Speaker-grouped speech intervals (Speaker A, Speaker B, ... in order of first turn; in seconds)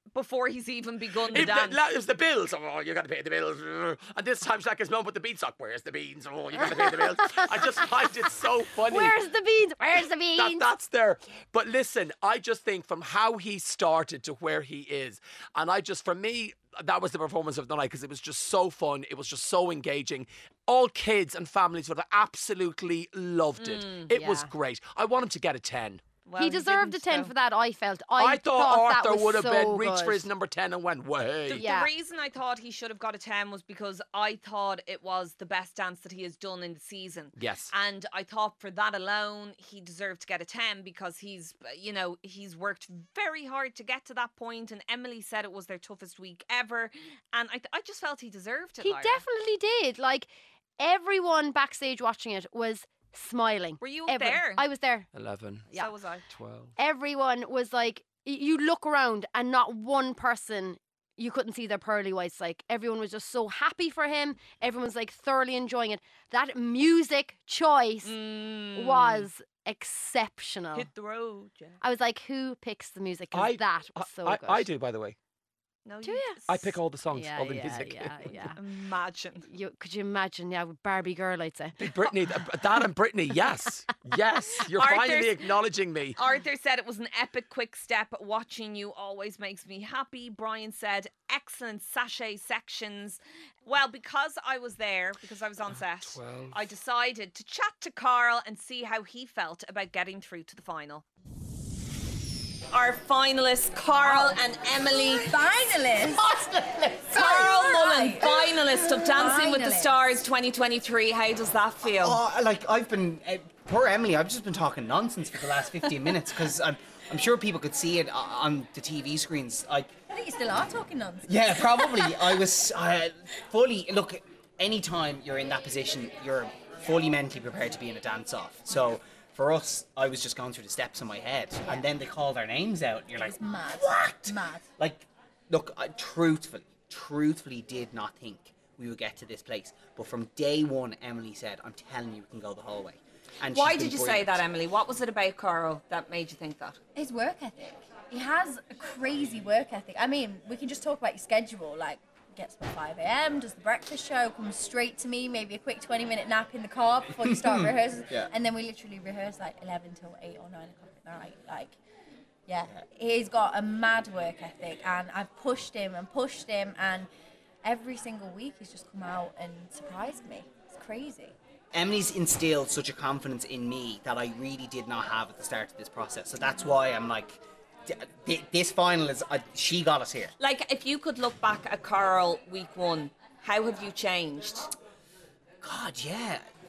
Speaker A: 0.1-1.8, 23.6-24.1, 26.3-27.3, 31.5-49.2, 53.8-54.6, 55.7-56.2, 68.0-69.3, 70.7-71.8, 75.8-76.8, 78.6-79.5, 84.7-85.4, 86.2-101.0, 102.7-105.3, 107.1-112.2, 143.5-146.8, 180.4-184.7
Speaker B: 1.3-9.2, 10.4-26.0, 28.2-31.7, 37.4-37.7, 55.1-55.7, 56.3-56.7, 73.3-75.2, 76.5-78.5, 81.8-86.2, 96.0-96.7
Speaker C: 6.6-8.3, 8.8-10.7, 24.1-24.5, 26.4-30.3, 31.5-31.9, 48.8-55.1, 56.8-68.2, 68.7-70.9, 71.8-74.7, 76.0-76.4, 77.1-78.6, 79.5-81.9
Speaker D: 104.0-104.4, 105.1-106.3, 107.1-110.1, 120.1-122.5, 133.2-134.7, 146.9-161.8, 162.5-167.1, 167.6-171.3
Speaker E: 106.2-107.4, 111.9-119.9, 121.3-144.4, 157.2-158.3, 171.7-180.3, 185.6-186.4